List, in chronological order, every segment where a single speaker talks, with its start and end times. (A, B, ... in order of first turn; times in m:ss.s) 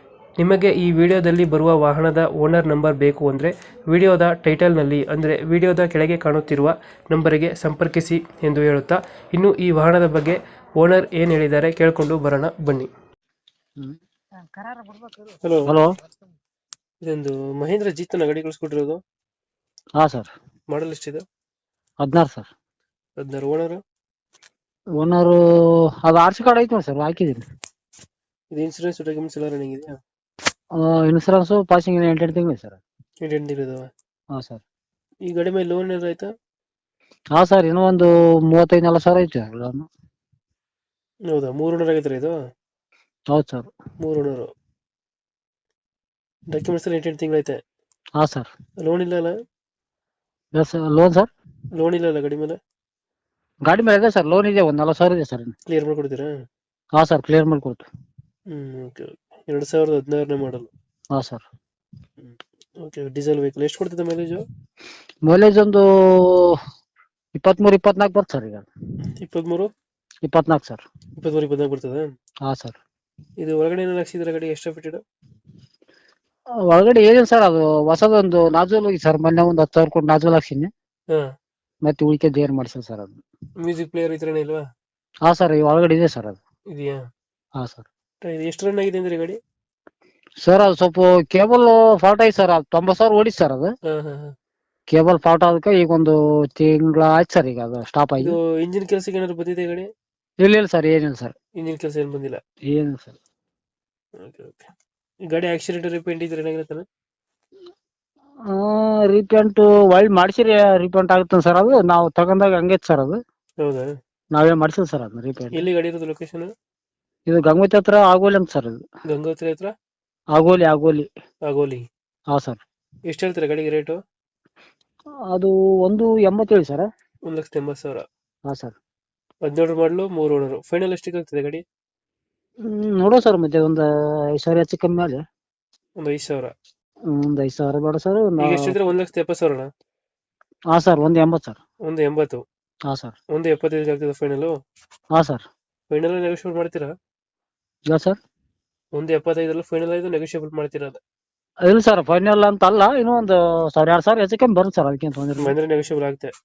0:00.4-0:12.9 A
0:13.8-0:16.0 B
0:15.4-0:15.8 A
0:17.0-0:19.0 A
0:20.0-0:20.3 B
0:20.7-0:21.2 A
0:22.0-0:22.5 B
0:23.2-0:23.8 A
0:25.0-0:27.5 B
0:28.5-0:30.0 A
0:30.8-0:32.8 B
0:33.2-0:33.9 A
0:34.3-0:34.6 B
0:35.3-0:36.3 A
0:37.4-0:39.9 B
0:41.3-0:42.4 A
0:43.3-0:43.7 B
0:44.0-0:44.5 A
0:46.5-0:47.6 A
0:48.2-0:48.5 B
0:48.8-0:49.4 A
0:50.6-0:51.3 B
0:51.8-0:52.6 A
0:53.7-0:55.5 B
0:55.7-0:56.3 A
0:57.0-0:57.9 B
0:58.5-1:00.7 A
1:01.1-1:01.4 B
1:02.2-1:04.4 A
1:05.3-1:06.6 B
1:07.4-1:08.7 B
1:09.1-1:09.7 A
1:10.2-1:10.8 B
1:11.2-1:12.1 A
1:12.4-1:12.8 B
1:13.4-1:15.0 A
1:16.7-1:20.7 B
1:21.9-1:23.2 B
1:23.6-1:24.6 A
1:25.3-1:26.4 B
1:26.7-1:27.0 A
1:27.6-1:27.9 B
1:28.2-1:29.4 A
1:30.4-1:33.7 B
1:33.9-1:34.3 A
1:34.9-1:38.4 B
1:38.2-1:39.9 A
1:40.4-1:41.3 B
1:41.6-1:42.4 A
1:42.7-1:43.2 B
1:44.2-1:44.7 A
1:45.3-1:46.9 A
1:48.5-1:53.2 B
1:53.6-1:53.9 A
1:54.3-1:55.6 B
1:55.5-1:56.5 A
1:57.3-1:58.8 B
1:59.1-1:59.7 A
2:00.4-2:01.1 B
2:01.5-2:01.8 A
2:02.3-2:02.6 B
2:03.1-2:04.0 A
2:05.3-2:06.9 B
2:07.3-2:08.0 A
2:08.5-2:08.7 B
2:09.4-2:11.6 A
2:12.6-2:15.2 B
2:16.0-2:16.5 A
2:17.1-2:18.7 B
2:18.4-2:19.7 A
2:20.7-2:21.6 B
2:21.8-2:22.4 A
2:22.9-2:23.2 B
2:23.3-2:24.5 A
2:25.1-2:25.4 B
2:25.9-2:26.9 A
2:27.9-2:28.2 B
2:28.9-2:31.0 A
2:31.6-2:35.6 B
2:35.4-2:36.3 A